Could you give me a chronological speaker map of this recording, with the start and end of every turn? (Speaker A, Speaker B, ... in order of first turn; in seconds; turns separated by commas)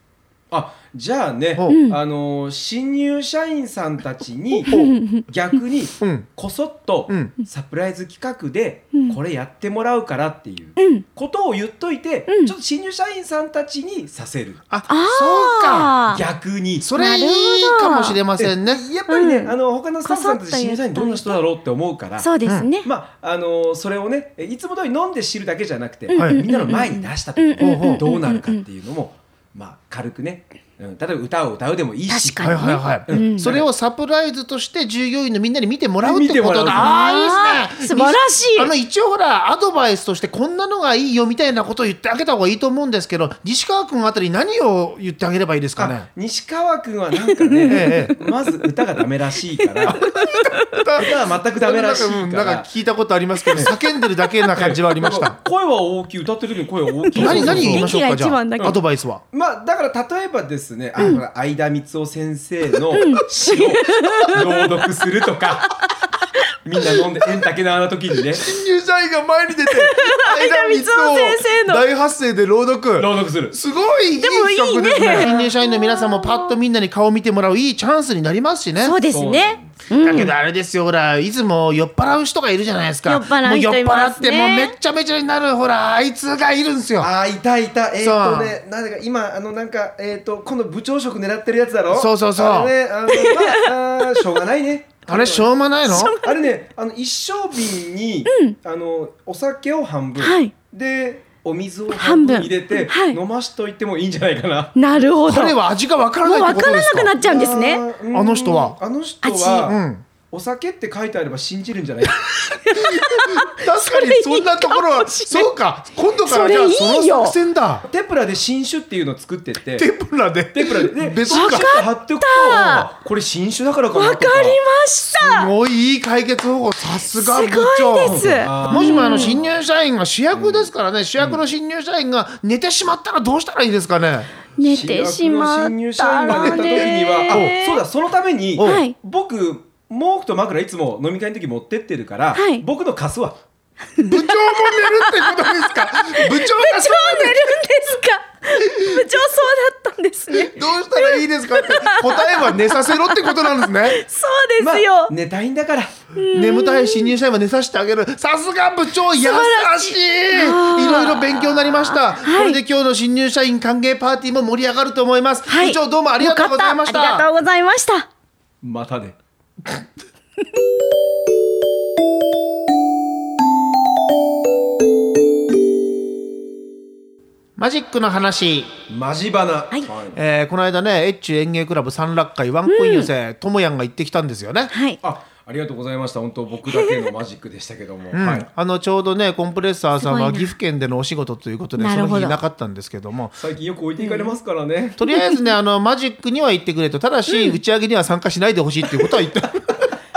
Speaker A: 0.5-14.6, Speaker B: 1.6-2.0, Speaker B: 4.7-5.2, Speaker C: 4.7-5.0, Speaker C: 6.0-6.3, Speaker B: 10.8-11.0, Speaker B: 12.3-12.5, Speaker C: 14.7-16.0, Speaker B: 14.9-16.2, Speaker A: 16.1-16.9, Speaker C: 16.8-18.8, Speaker B: 16.9-18.2, Speaker A: 18.4-22.3, Speaker B: 19.1-21.4, Speaker B: 22.2-22.9, Speaker A: 22.8-33.7, Speaker B: 26.1-28.6, Speaker C: 26.1-26.4, Speaker C: 27.6-28.0, Speaker B: 32.1-33.5, Speaker C: 32.4-46.1, Speaker A: 36.0-37.0, Speaker B: 36.7-38.7, Speaker A: 45.8-50.0, Speaker B: 47.3-48.2, Speaker C: 47.7-48.1, Speaker B: 49.8-50.8, Speaker C: 49.9-55.4, Speaker A: 50.9-52.7, Speaker A: 54.5-57.9, Speaker B: 57.1-58.8, Speaker C: 57.1-59.2, Speaker A: 59.3-65.9, Speaker B: 62.9-64.7, Speaker B: 65.6-66.5, Speaker A: 66.6-68.5, Speaker C: 68.4-79.0, Speaker B: 69.7-71.8, Speaker A: 73.0-73.5, Speaker B: 74.2-76.6, Speaker B: 78.8-80.3, Speaker A: 79.1-79.8, Speaker C: 80.0-87.1, Speaker B: 83.0-84.7, Speaker A: 87.0-104.7, Speaker C: 88.0-88.6, Speaker C: 91.9-92.7, Speaker B: 93.1-94.2, Speaker C: 95.1-96.2, Speaker B: 95.9-96.3, Speaker B: 98.3-98.5, Speaker B: 100.2-100.5, Speaker B: 101.9-103.2, Speaker B: 104.8-105.6, Speaker C: 105.2-107.1, Speaker B: 106.2-107.8, Speaker A: 107.2-112.2, Speaker C: 108.1-108.8, Speaker B: 109.2-109.7, Speaker C: 109.6-110.0, Speaker B: 112.6-115.5, Speaker C: 112.7-117.8, Speaker B: 116.2-117.3, Speaker A: 117.8-119.9, Speaker C: 119.8-121.7, Speaker A: 120.5-124.6, Speaker B: 121.3-122.9, Speaker B: 123.9-125.5, Speaker C: 125.2-134.3, Speaker B: 127.1-129.3, Speaker A: 128.0-129.5, Speaker A: 130.3-131.4, Speaker B: 134.6-137.8, Speaker A: 134.6-143.4, Speaker C: 136.3-137.6, Speaker C: 138.6-138.8, Speaker B: 138.6-138.9, Speaker B: 142.3-142.6, Speaker B: 143.9-155.1, Speaker C: 144.0-147.4, Speaker C: 148.6-149.1, Speaker C: 150.3-154.0, Speaker A: 154.6-155.9, Speaker B: 156.1-157.1, Speaker C: 156.3-167.3, Speaker B: 159.1-162.6, Speaker B: 165.5-168.1, Speaker A: 168.6-169.2, Speaker C: 177.6-178.7, Speaker A: 178.9-180.2, Speaker C: 180.1-184.7, Speaker B: 182.7-183.1, Speaker B: 184.7-185.0, Speaker A: 185.0-188.4, Speaker B: 186.7-187.1, Speaker C: 188.1-193.4, Speaker B: 190.0-190.5, Speaker B: 191.8-192.4, Speaker A: 193.4-195.0, Speaker B: 194.0-194.3, Speaker C: 195.0-199.9, Speaker B: 195.1-195.4, Speaker B: 197.3-197.6